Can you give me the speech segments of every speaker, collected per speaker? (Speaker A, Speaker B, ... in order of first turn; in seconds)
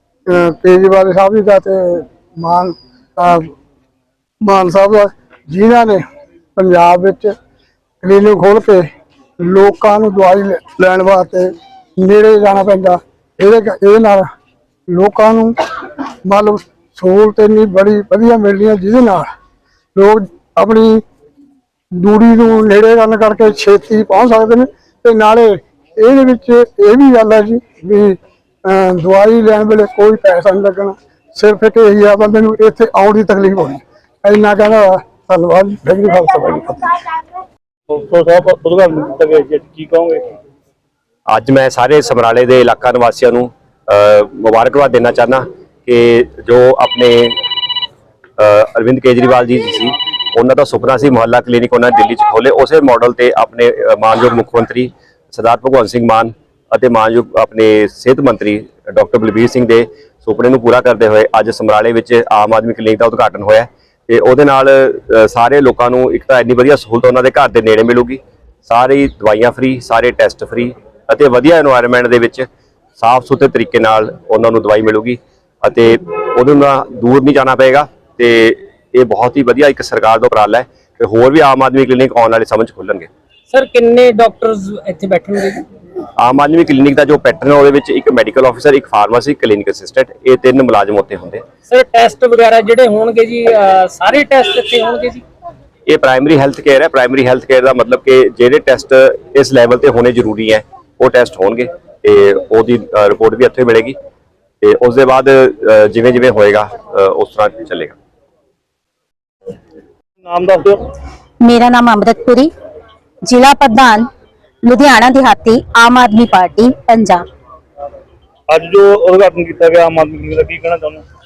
Speaker A: 0.3-3.5, 4.4-6.0, 6.5-7.3, 8.0-8.9, 9.4-14.3, 14.9-15.6, 16.2-19.3, 19.9-21.0, 22.0-37.0
Speaker B: 37.9-40.4, 110.2-110.8, 118.5-121.0
Speaker C: 41.3-47.4, 48.4-83.1, 86.2-91.4, 95.9-103.9, 104.6-108.0
Speaker D: 83.5-85.6, 91.7-95.2
Speaker E: 111.4-112.5, 113.2-114.0, 114.6-117.2